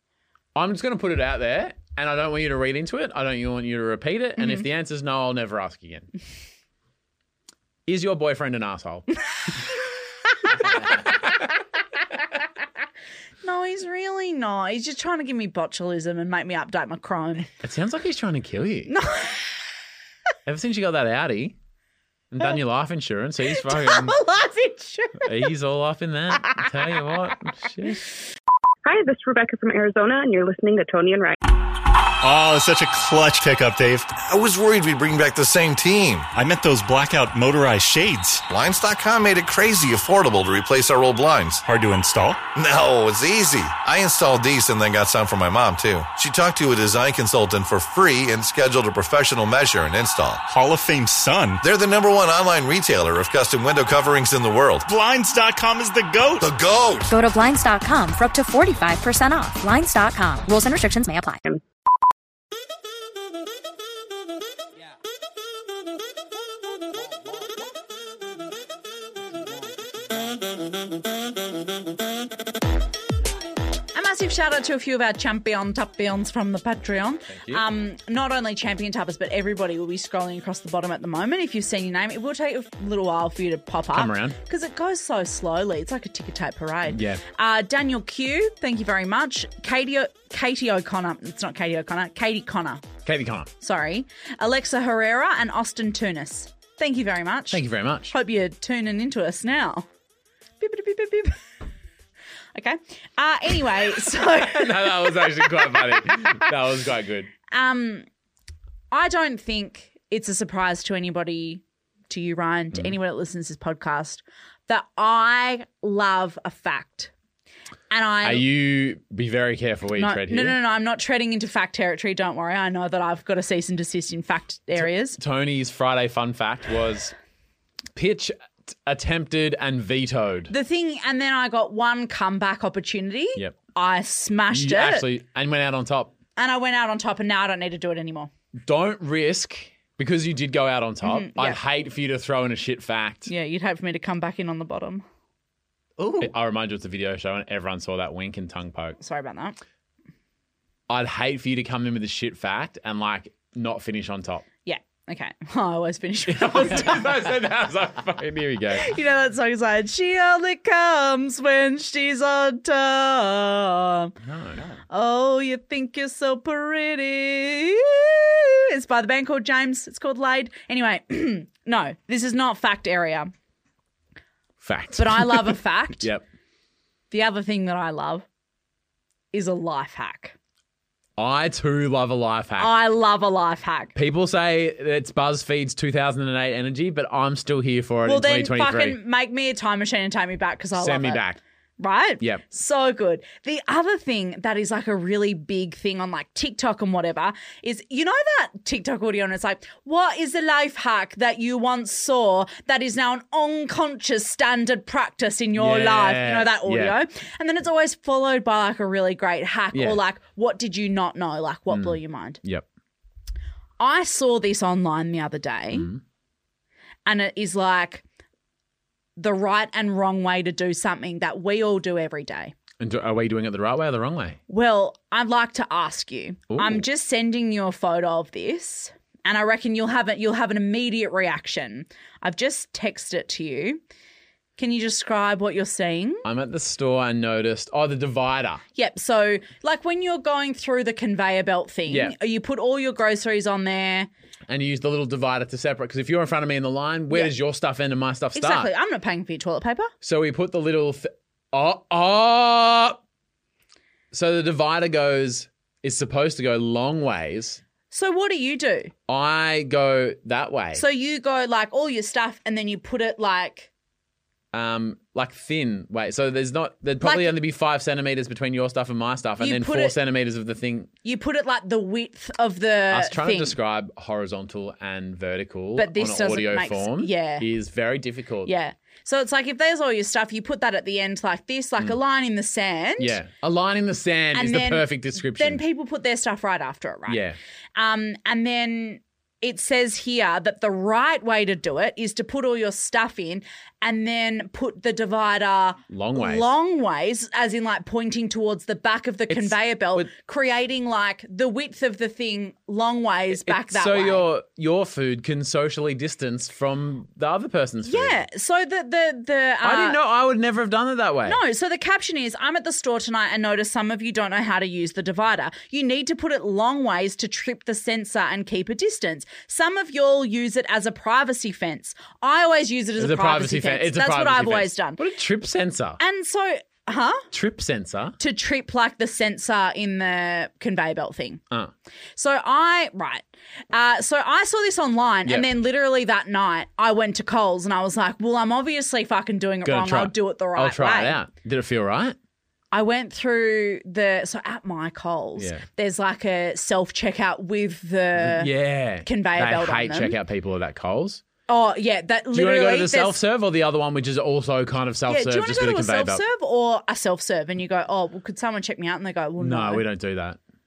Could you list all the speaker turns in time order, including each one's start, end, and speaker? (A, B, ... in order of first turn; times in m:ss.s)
0:00.6-0:06.1 A
0:04.4-0:04.6 B
0:07.9-0:09.1 A
0:13.4-0:17.5 B
0:17.6-0:18.9 A
0:18.9-0:19.6 B
0:20.4-0:21.6 A
0:22.3-0:24.2 A
0:23.5-0:25.5 B
0:25.2-0:28.0 A
0:28.8-0:31.4 C
0:32.2-0:34.2 D
0:34.2-0:36.3 E
0:36.3-0:38.4 D
0:38.5-0:41.6 E
0:41.6-0:42.4 D
0:42.5-0:50.4 E
0:50.5-0:51.6 D
0:51.6-0:54.9 E
0:54.9-0:56.4 D
0:56.4-0:57.1 E
0:57.1-1:01.4 F
1:13.9-1:32.8 B
1:17.3-1:17.6 A
1:23.9-1:24.4 A
1:26.9-1:27.2 A
1:33.0-1:33.5 A
1:33.6-1:39.8 B
1:37.5-1:38.1 A
1:40.6-1:41.4 B
1:42.5-1:45.8 B
1:44.4-1:47.3 A
1:47.5-1:48.0 B
1:48.9-1:57.1 B
1:57.9-1:58.5 B
1:58.2-2:00.6 A
2:00.0-2:05.2 B
2:04.8-2:07.1 A
2:07.9-2:10.5 A
2:10.5-2:15.1 B
2:14.5-2:16.1 A
2:16.4-2:18.3 B
2:18.6-2:23.3 A
2:21.0-2:21.6 B
2:23.3-2:25.0 B
2:26.2-2:29.0 A
2:29.0-2:29.6 B
2:30.9-2:34.4 A
2:34.6-2:37.3 B
2:36.3-2:38.9 A
2:38.7-2:44.1 B
2:44.2-2:44.8 A
2:44.9-2:53.3 B
2:54.6-2:56.2 A
2:55.0-2:56.1 B
2:57.1-2:58.2 B
2:59.3-3:00.3 B
3:01.2-3:02.7 A
3:02.6-3:03.9 B
3:03.9-3:09.0 A
3:08.0-3:11.2 B
3:10.8-3:11.4 A
3:11.8-3:32.4 B
3:25.6-3:27.0 A
3:29.7-3:30.0 A
3:31.7-3:32.6 A
3:33.8-3:35.9 B
3:35.7-3:36.0 A
3:37.0-3:38.0 B
3:39.2-3:42.5 B
3:42.8-3:44.4 A
3:44.5-3:53.8 B
3:46.5-3:46.8 A
3:54.6-3:56.2 B
3:56.2-3:58.6 A
3:58.7-4:04.1 B
4:01.9-4:02.1 A
4:04.5-4:08.7 A
4:08.3-4:09.9 B
4:10.0-4:13.0 A
4:14.1-4:17.6 A
4:17.9-4:18.9 B
4:19.1-4:20.8 A
4:20.8-4:23.7 B
4:24.5-4:30.9 A
4:27.0-4:27.3 B
4:29.4-4:29.9 B
4:31.0-4:33.6 B
4:32.9-4:38.5 A
4:35.8-4:37.5 B
4:38.4-4:43.2 B
4:43.0-4:45.6 A
4:44.3-4:47.2 B
4:47.1-4:47.4 A
4:47.8-5:04.2 B
4:55.9-4:56.5 A
4:59.3-5:00.1 A
5:03.3-5:08.2 A
5:07.8-5:10.0 B
5:09.6-5:11.4 A
5:11.2-5:25.0 B
5:23.0-5:26.0 A
5:26.0-5:27.2 B
5:27.3-5:28.2 A
5:28.2-5:31.4 B
5:32.2-5:41.2 B
5:39.6-5:42.2 A
5:42.7-5:48.5 B
5:45.4-5:45.6 A
5:48.2-5:51.2 A
5:49.0-5:50.2 B
5:51.5-5:53.2 B
5:52.3-5:56.2 A
5:55.1-5:59.8 B
5:59.4-6:00.4 A